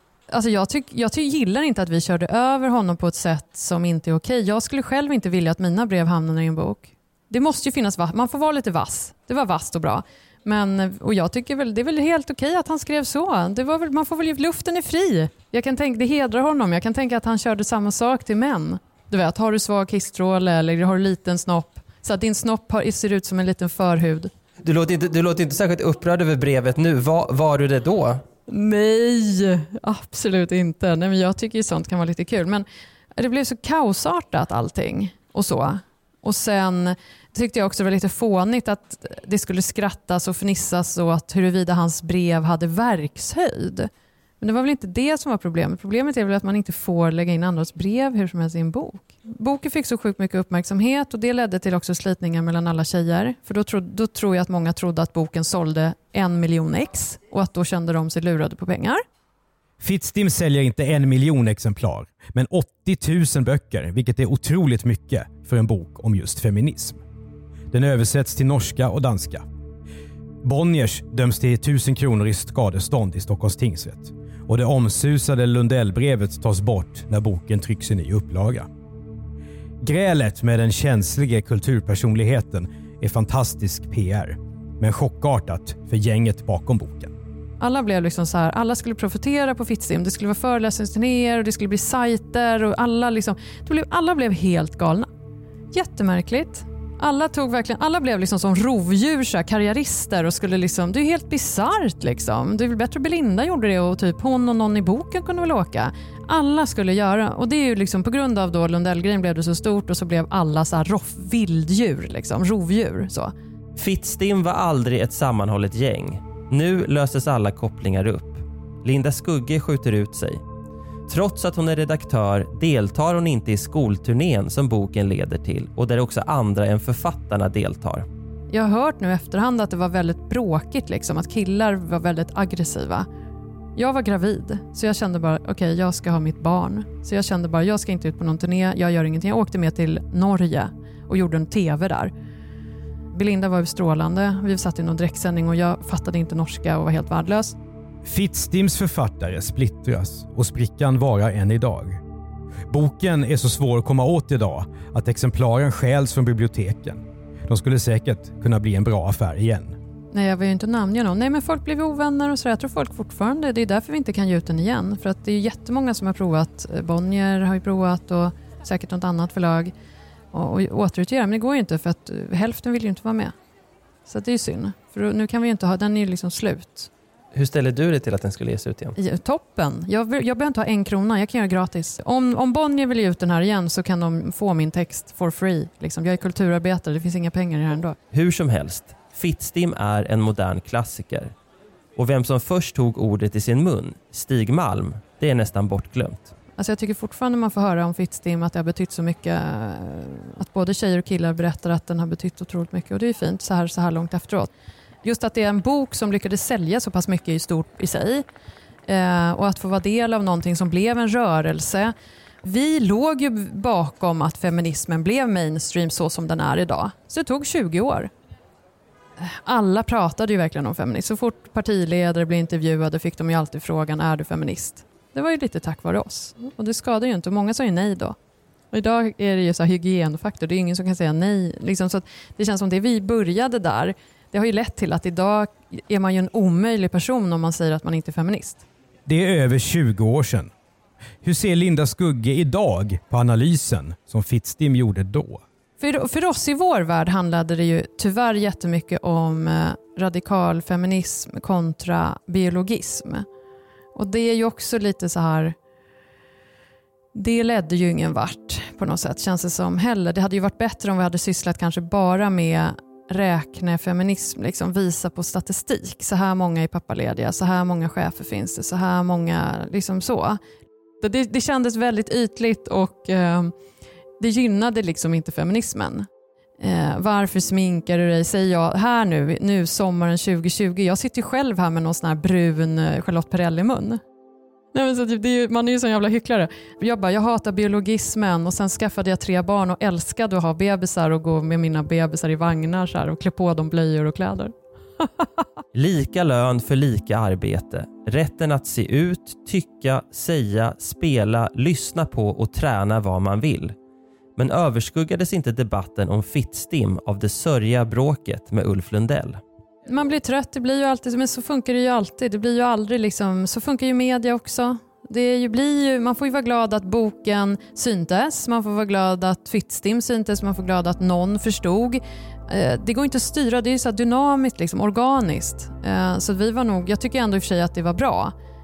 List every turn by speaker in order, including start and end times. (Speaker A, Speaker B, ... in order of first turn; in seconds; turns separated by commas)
Speaker A: 0.3-24.3, Speaker B: 24.6-28.2, Speaker A: 28.5-32.6, Speaker A: 33.2-43.9, Speaker A: 44.4-59.0, Speaker C: 59.8-67.0, Speaker C: 67.7-69.5, Speaker C: 70.4-78.7, Speaker C: 79.8-87.1, Speaker A: 87.6-95.1, Speaker A: 95.7-113.3, Speaker B: 113.8-120.4, Speaker B: 121.1-128.1, Speaker A: 128.5-133.1, Speaker A: 133.8-142.1, Speaker A: 143.1-147.6, Speaker C: 148.0-152.0, Speaker C: 152.7-159.8, Speaker A: 160.1-169.7, Speaker A: 170.3-173.3, Speaker A: 174.1-176.9, Speaker B: 177.3-179.0, Speaker A: 179.0-188.0, Speaker B: 188.1-191.3, Speaker B: 192.0-196.3, Speaker A: 196.6-204.5, Speaker A: 205.0-208.2, Speaker A: 208.9-211.9, Speaker A: 212.4-218.1, Speaker A: 219.2-228.2, Speaker A: 228.7-238.6, Speaker C: 239.1-240.5, Speaker C: 241.2-245.4, Speaker A: 245.8-253.3, Speaker A: 254.0-255.6, Speaker A: 257.1-270.4, Speaker A: 271.0-273.5, Speaker A: 274.2-276.1, Speaker A: 276.6-284.0, Speaker A: 284.7-295.3, Speaker B: 295.7-303.8, Speaker B: 304.4-309.4, Speaker A: 309.9-328.3